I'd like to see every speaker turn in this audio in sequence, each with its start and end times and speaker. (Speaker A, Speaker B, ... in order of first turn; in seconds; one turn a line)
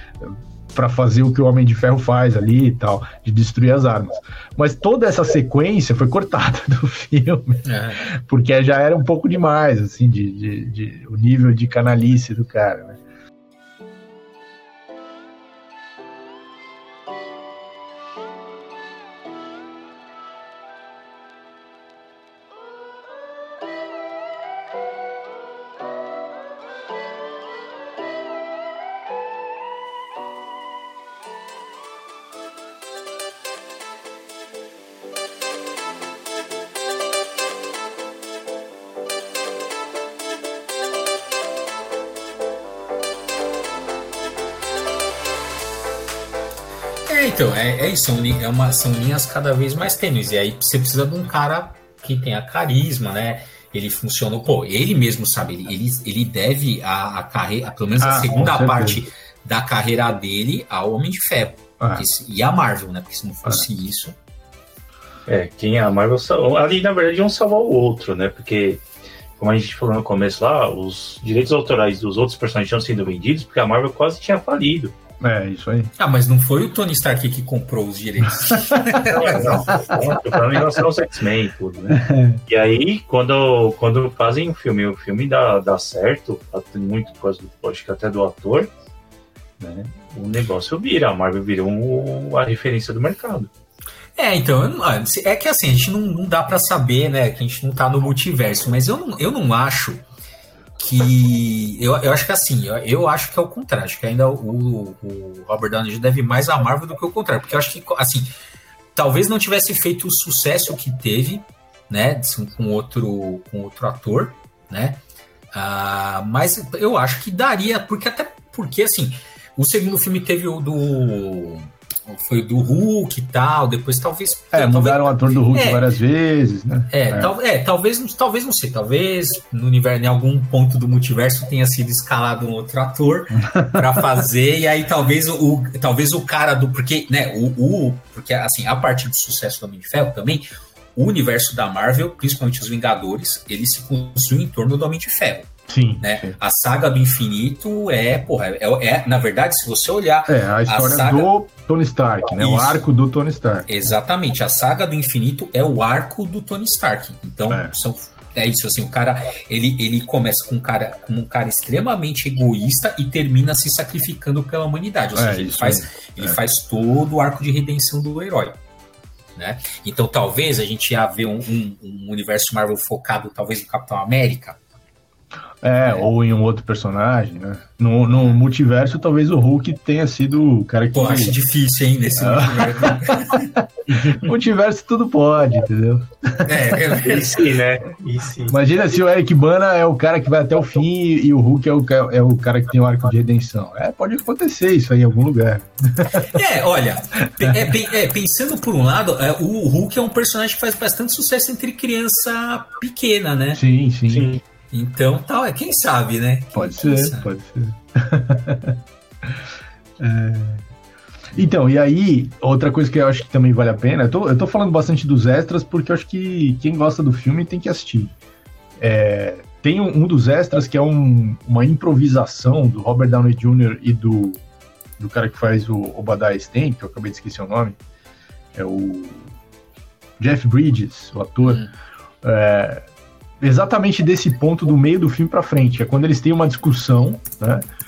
Speaker A: 0.2-13.0
Speaker B: 7.6-8.1
Speaker B: 47.1-64.2
Speaker A: 58.0-59.0
Speaker A: 61.8-62.1
Speaker C: 65.3-68.8
Speaker C: 69.4-75.0
Speaker A: 75.2-75.9
Speaker B: 76.0-79.7
Speaker A: 78.5-79.1
Speaker C: 79.1-88.7
Speaker A: 81.9-82.4
Speaker C: 89.6-93.5
Speaker B: 94.2-100.0
Speaker B: 100.8-108.3
Speaker B: 108.9-115.0
Speaker B: 115.5-125.9
Speaker A: 124.5-127.3
Speaker B: 126.9-151.3
Speaker A: 133.4-134.0
Speaker A: 145.7-146.4
Speaker A: 150.3-153.7
Speaker B: 152.4-152.8
Speaker B: 153.7-168.6
Speaker A: 157.5-157.7
Speaker A: 165.1-166.4
Speaker B: 169.4-174.6
Speaker A: 175.6-181.4
Speaker B: 180.9-183.6
Speaker A: 182.1-186.8
Speaker B: 186.4-187.6
Speaker C: 187.0-188.6
Speaker A: 188.5-196.3
Speaker B: 196.2-203.6
Speaker A: 197.4-197.7
Speaker A: 203.5-204.3
Speaker C: 204.1-204.4
Speaker B: 204.7-207.3
Speaker A: 206.5-209.4
Speaker A: 210.0-210.6
Speaker A: 211.3-218.1
Speaker A: 218.8-224.4
Speaker A: 225.0-227.8
Speaker A: 228.6-229.3
Speaker A: 230.2-231.7
Speaker B: 231.4-231.7
Speaker A: 232.2-232.9
Speaker A: 233.4-237.7